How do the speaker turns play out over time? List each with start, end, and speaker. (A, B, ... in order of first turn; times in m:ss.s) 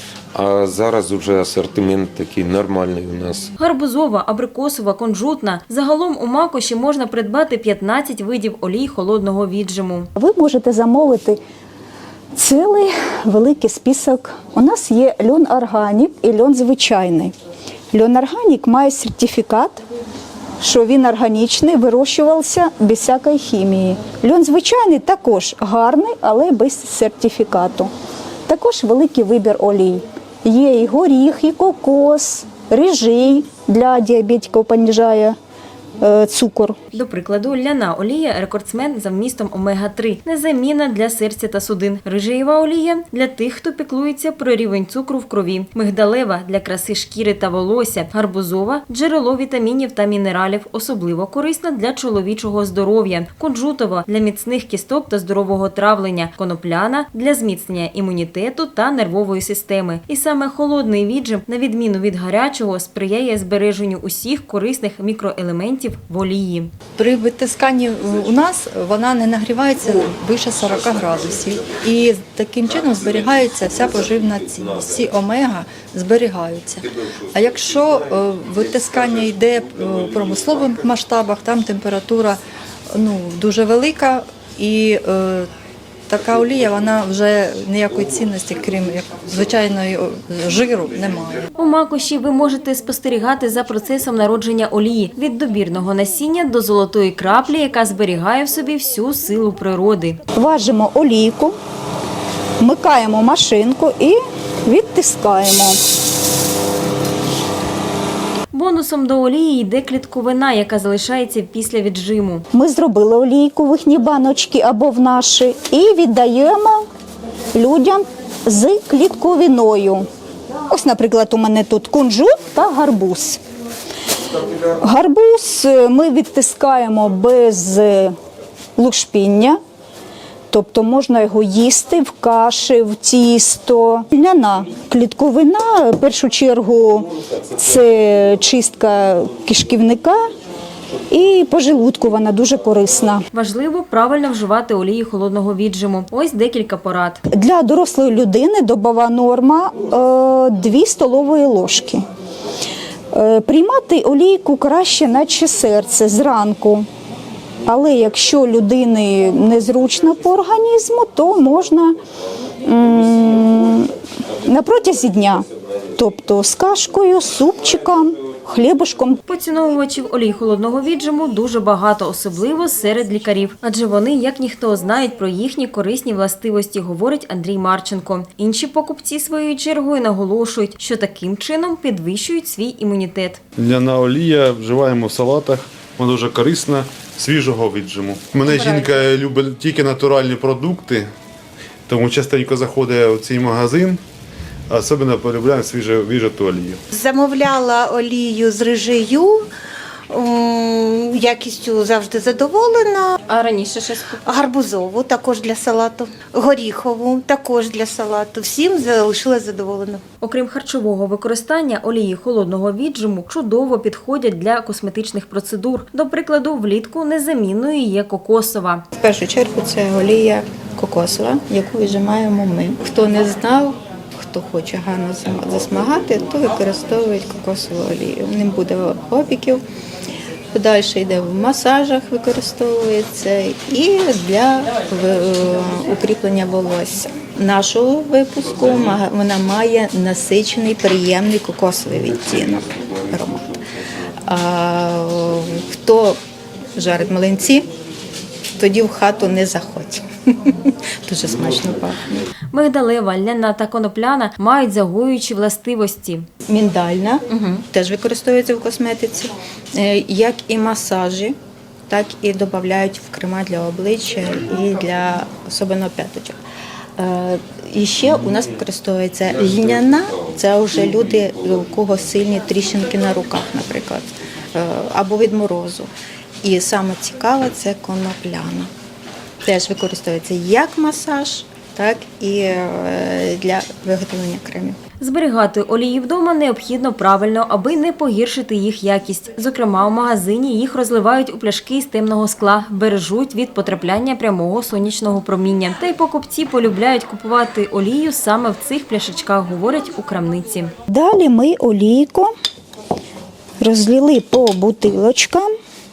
0:00.3-0:03.5 A
0:03.6-0:10.1 B
0:10.2-0:11.4 C
0:12.4-0:17.3 C
0:17.9-0:19.8 C
0:20.6-0:27.9 C
0:28.5-0:35.4 C
0:36.0-0:36.8 C
0:36.9-1:06.7 B
1:07.0-1:22.4 D
1:07.2-1:07.6 E
1:12.2-1:12.5 E
1:13.4-1:13.7 E
1:23.0-1:25.5 D
1:26.1-1:31.4 D
1:29.7-1:30.3 E
1:31.6-1:40.2 B
1:40.4-1:41.5 C
1:42.6-1:45.8 C
1:48.5-1:52.4 B
1:52.5-1:56.8 C
1:57.6-2:00.1 C
2:00.7-2:03.4 C
2:04.8-2:08.2 C
2:08.8-2:09.6 C
2:10.5-2:20.2 C
2:21.1-2:23.2 C
2:23.3-2:27.2 B
2:27.3-2:32.0 C
2:33.1-2:36.9 C
2:37.7-2:42.0 C
2:42.6-2:43.9 C
2:44.4-2:45.5 C
2:46.0-2:49.2 C
2:49.3-3:03.4 B
3:03.6-3:11.1 F
3:08.5-3:09.0 G
3:11.9-3:14.0 F
3:14.7-3:16.8 F
3:16.9-3:19.5 G
3:20.1-3:23.2 G
3:23.3-3:24.1 B
3:24.2-3:30.0 G
3:30.2-3:38.8 B
3:39.0-3:49.6 E
3:50.5-4:03.6 E
4:04.3-4:06.2 E
4:06.8-4:07.7 E
4:08.6-4:12.2 E
4:12.5-4:16.3 B
4:16.5-4:21.4 E
4:21.9-4:26.4 E
4:27.0-4:35.9 E
4:36.4-4:38.7 E
4:39.4-4:44.8 E
4:45.0-5:00.7 B
5:00.9-5:02.3 C
5:03.6-5:05.5 C